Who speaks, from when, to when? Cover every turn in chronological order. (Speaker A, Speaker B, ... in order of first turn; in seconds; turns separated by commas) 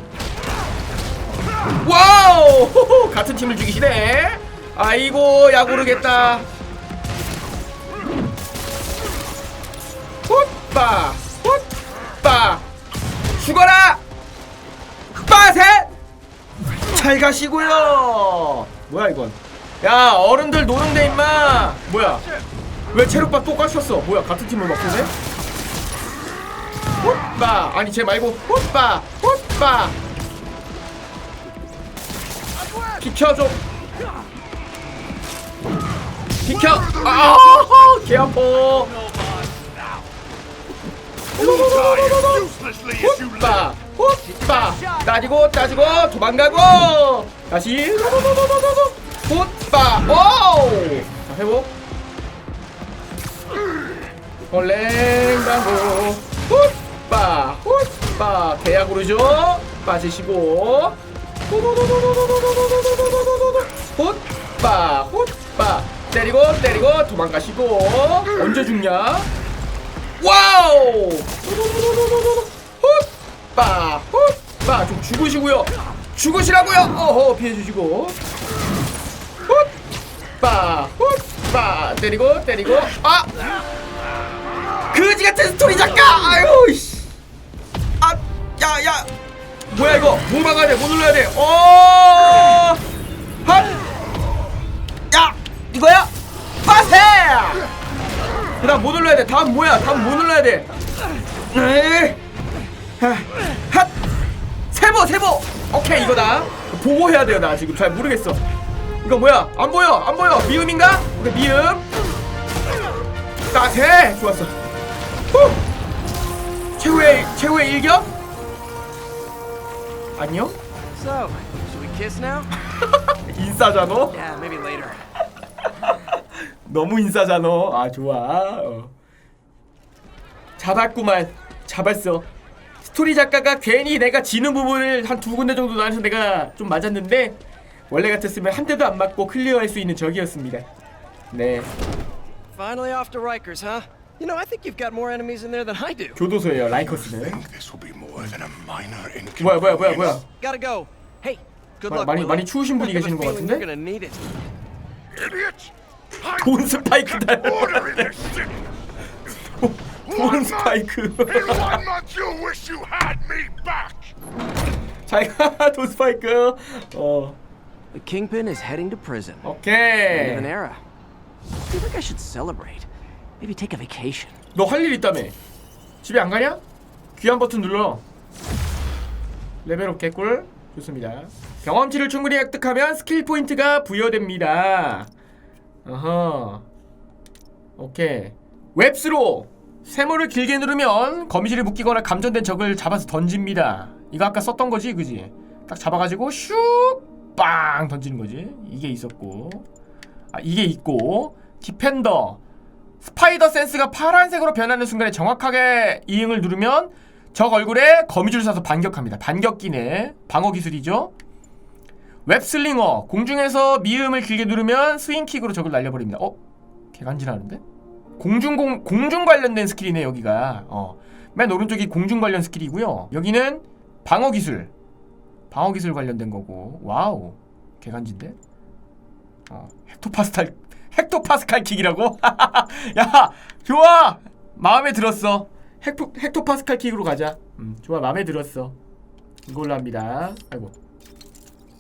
Speaker A: 1.6-6.5, Speaker A: 10.3-11.7, Speaker A: 12.2-12.7, Speaker A: 13.4-14.0, Speaker A: 15.2-15.9, Speaker A: 16.9-22.2, Speaker A: 22.9-25.1, Speaker A: 27.0-30.0, Speaker A: 33.0-33.6, Speaker A: 36.4-38.9, Speaker B: 36.7-38.0, Speaker B: 41.4-43.7, Speaker A: 41.4-51.7, Speaker C: 44.2-45.3, Speaker A: 54.5-61.0, Speaker A: 61.5-69.3, Speaker A: 70.2-78.2, Speaker A: 80.4-83.3, Speaker A: 84.9-87.1, Speaker A: 88.0-89.1, Speaker A: 89.7-92.8, Speaker A: 93.4-93.8, Speaker A: 95.1-96.1, Speaker A: 96.6-97.6, Speaker A: 98.6-100.7, Speaker A: 101.5-102.2, Speaker A: 103.0-103.9, Speaker A: 104.7-108.4, Speaker A: 109.0-111.9, Speaker A: 113.5-114.5, Speaker A: 116.8-118.1, Speaker A: 120.2-120.6, Speaker C: 121.0-122.5, Speaker A: 122.8-124.2, Speaker C: 124.1-125.0, Speaker A: 126.6-128.9, Speaker A: 130.6-132.3, Speaker A: 132.8-137.4, Speaker A: 137.9-140.7, Speaker A: 141.3-141.7, Speaker C: 142.6-146.2, Speaker A: 146.2-147.5, Speaker B: 146.8-150.2, Speaker A: 149.4-150.2, Speaker C: 150.4-154.2, Speaker A: 151.9-153.7, Speaker B: 155.2-155.7, Speaker A: 156.3-158.3, Speaker B: 157.4-158.5, Speaker A: 159.3-161.8, Speaker B: 160.1-160.8, Speaker B: 161.4-164.1, Speaker A: 165.1-167.4, Speaker C: 167.9-169.4, Speaker A: 169.4-170.5, Speaker C: 170.1-170.8, Speaker C: 171.7-172.9, Speaker C: 173.4-174.3, Speaker A: 174.5-175.3, Speaker A: 176.0-176.6, Speaker A: 177.2-178.0, Speaker A: 179.6-185.1, Speaker A: 185.8-186.7, Speaker A: 187.8-199.7, Speaker A: 200.3-202.4, Speaker A: 203.0-211.1, Speaker A: 212.3-216.4, Speaker A: 216.9-217.6, Speaker A: 218.2-224.7, Speaker A: 225.5-228.4, Speaker A: 229.5-238.8, Speaker A: 239.5-240.7